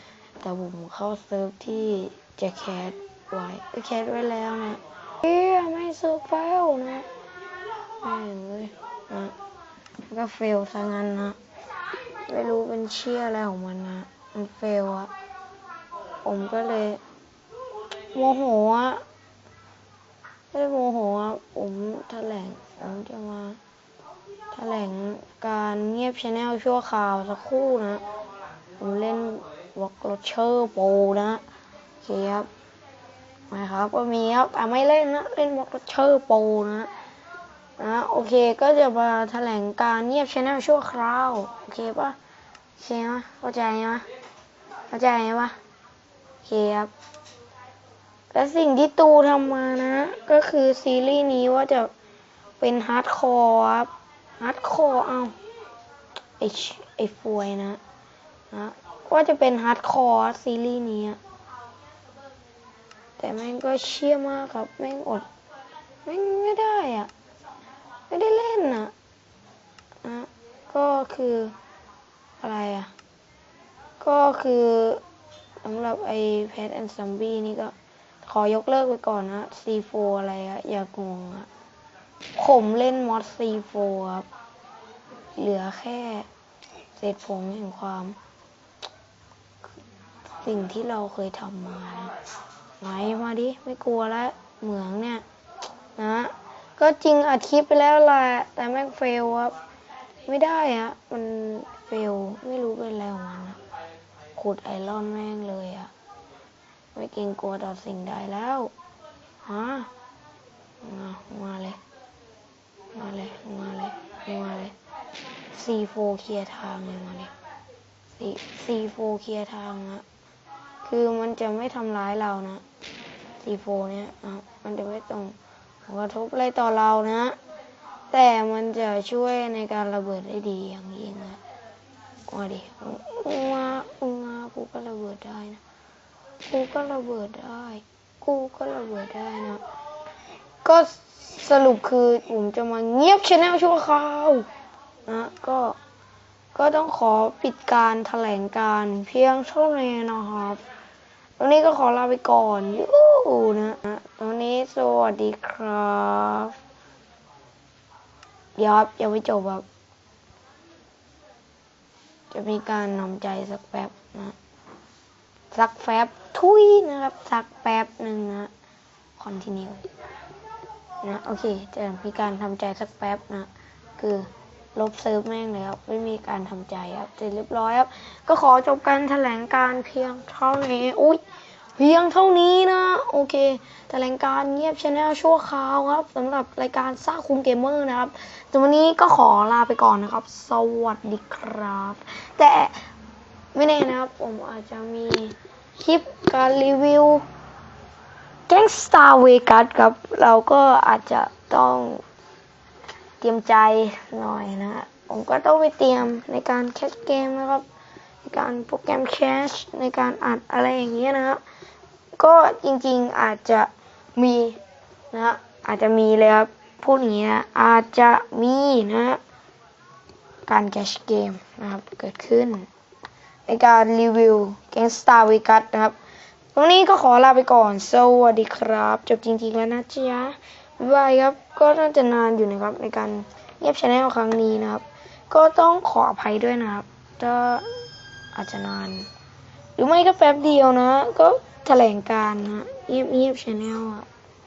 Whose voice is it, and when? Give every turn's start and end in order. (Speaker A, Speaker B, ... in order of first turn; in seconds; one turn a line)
Speaker A: 0.4-7.1
Speaker A: 8.0-9.3
Speaker A: 10.1-11.4
Speaker A: 12.3-15.1
Speaker A: 16.2-17.0
Speaker A: 18.1-19.0
Speaker A: 20.5-23.6
Speaker A: 24.5-28.0
Speaker A: 28.8-31.4
Speaker A: 32.0-32.5
Speaker A: 33.5-36.9
Speaker A: 37.8-42.2
Speaker A: 42.8-44.0
Speaker A: 44.9-45.6
Speaker A: 46.4-46.9
Speaker A: 48.3-51.9
Speaker A: 52.6-55.3
Speaker A: 56.4-57.8
Speaker A: 58.5-61.2
Speaker A: 63.2-65.3
Speaker A: 66.0-67.1
Speaker A: 68.1-68.9
Speaker A: 70.0-71.5
Speaker A: 72.4-72.9
Speaker A: 74.0-75.0
Speaker A: 75.6-81.5
Speaker A: 82.3-84.2
Speaker A: 85.4-86.3
Speaker A: 87.0-88.2
Speaker A: 90.4-92.1
Speaker A: 92.8-95.2
Speaker A: 96.0-99.5
Speaker A: 100.2-103.6
Speaker A: 104.3-105.9
Speaker A: 106.9-108.7
Speaker A: 109.4-109.9
Speaker A: 110.8-111.8
Speaker A: 112.9-114.7
Speaker A: 115.5-117.3
Speaker A: 118.2-120.0
Speaker A: 120.8-122.6
Speaker A: 123.4-127.4
Speaker A: 128.1-131.4
Speaker A: 132.3-135.6
Speaker A: 136.5-139.6
Speaker A: 140.6-144.5
Speaker A: 145.1-145.8
Speaker A: 146.5-150.6
Speaker A: 151.4-156.6
Speaker A: 158.6-159.6
Speaker A: 162.3-164.3
Speaker A: 165.5-168.5
Speaker A: 169.2-169.9
Speaker A: 171.0-181.2
Speaker A: 181.8-192.8
Speaker A: 193.5-197.2
Speaker A: 198.5-202.0
Speaker A: 203.2-207.7
Speaker A: 208.2-211.4
Speaker A: 212.2-214.6
Speaker A: 215.1-219.2
Speaker A: 220.4-222.7
Speaker A: 223.5-225.9
Speaker A: 226.5-239.1
Speaker A: 239.8-244.1